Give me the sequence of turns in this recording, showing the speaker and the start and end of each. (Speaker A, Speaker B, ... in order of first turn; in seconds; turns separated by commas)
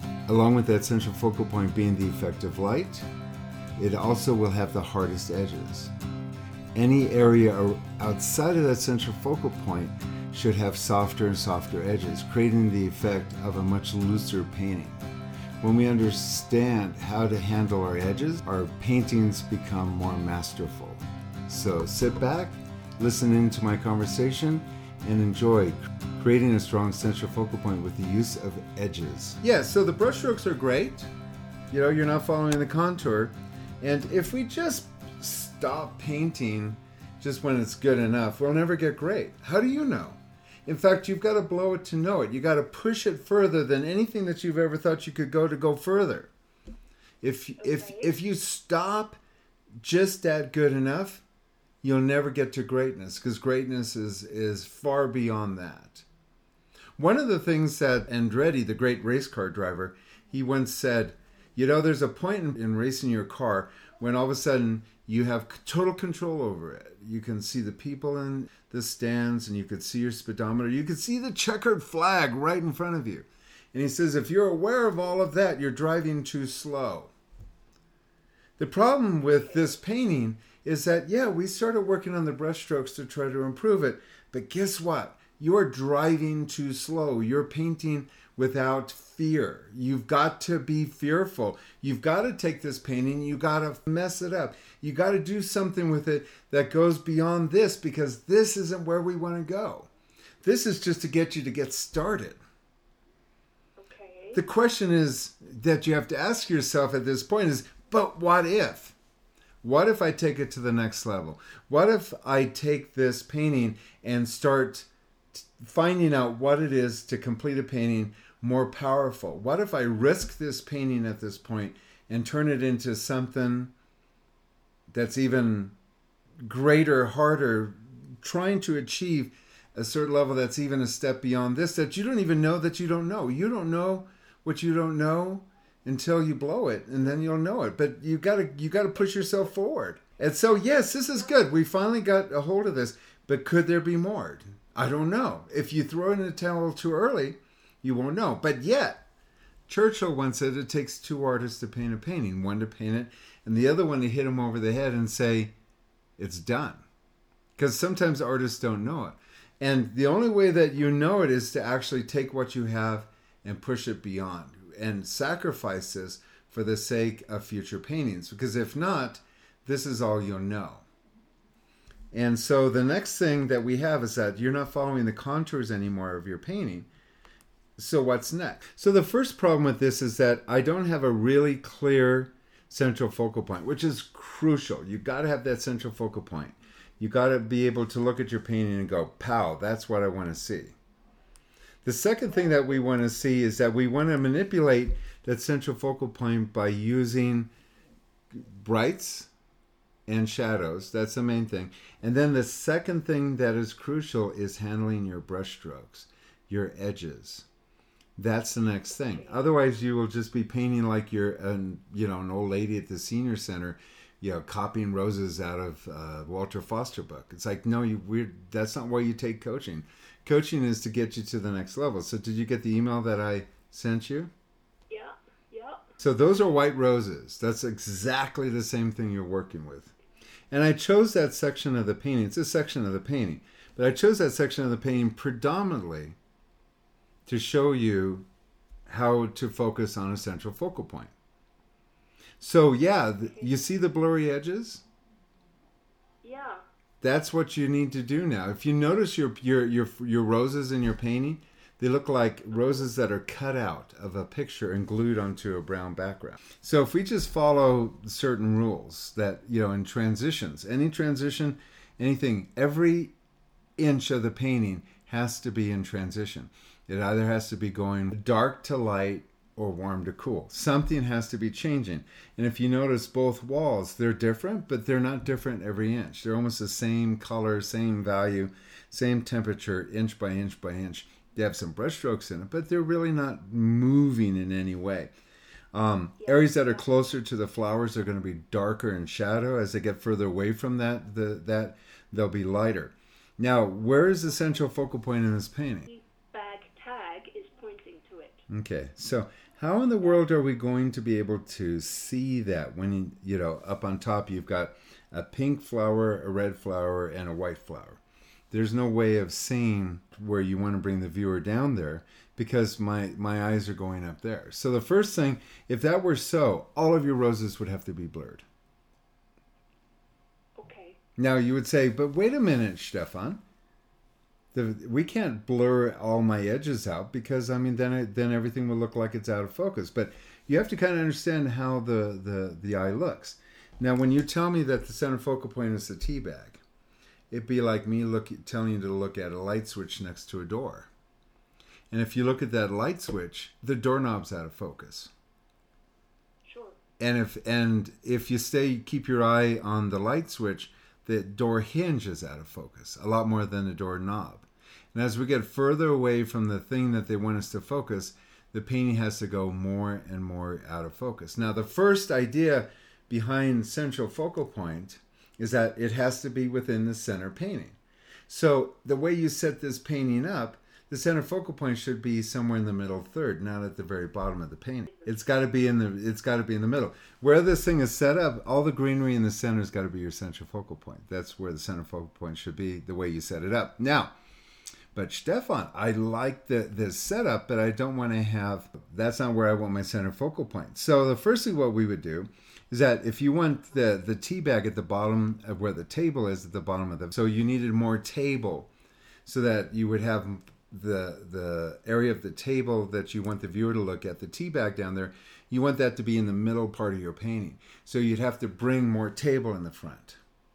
Speaker A: 0.3-3.1, Speaker A: 3.8-5.9, Speaker A: 6.7-15.0, Speaker A: 15.6-31.1, Speaker A: 31.7-46.3, Speaker A: 47.2-49.2, Speaker B: 47.6-48.1, Speaker A: 49.8-51.2, Speaker A: 51.8-56.0, Speaker A: 57.0-77.1, Speaker A: 78.6-99.9, Speaker A: 100.4-102.4, Speaker B: 103.8-104.4, Speaker A: 104.3-109.0, Speaker A: 109.6-123.7, Speaker A: 124.9-125.7, Speaker A: 126.4-149.1, Speaker A: 149.7-155.5, Speaker A: 156.2-156.8, Speaker A: 157.6-170.8, Speaker A: 172.1-176.9, Speaker A: 177.8-190.8, Speaker A: 191.8-197.5, Speaker A: 198.3-199.3, Speaker A: 200.1-207.5, Speaker A: 208.2-224.3, Speaker B: 208.6-209.4, Speaker B: 224.9-225.8, Speaker A: 226.0-229.9, Speaker A: 230.5-236.2, Speaker A: 237.2-238.3, Speaker A: 238.9-241.1, Speaker A: 242.4-244.8, Speaker B: 243.2-243.5, Speaker B: 246.2-246.6, Speaker A: 247.0-263.1, Speaker A: 263.8-285.1, Speaker A: 285.7-295.9, Speaker B: 286.2-286.8, Speaker B: 295.9-298.4, Speaker A: 298.5-308.0, Speaker A: 308.5-318.4, Speaker B: 320.6-321.0, Speaker A: 321.2-323.4, Speaker A: 324.5-336.6, Speaker A: 337.3-340.9, Speaker A: 341.9-345.1, Speaker B: 346.4-346.8, Speaker A: 347.0-367.8, Speaker A: 368.3-384.1, Speaker A: 384.9-398.7, Speaker A: 399.2-410.2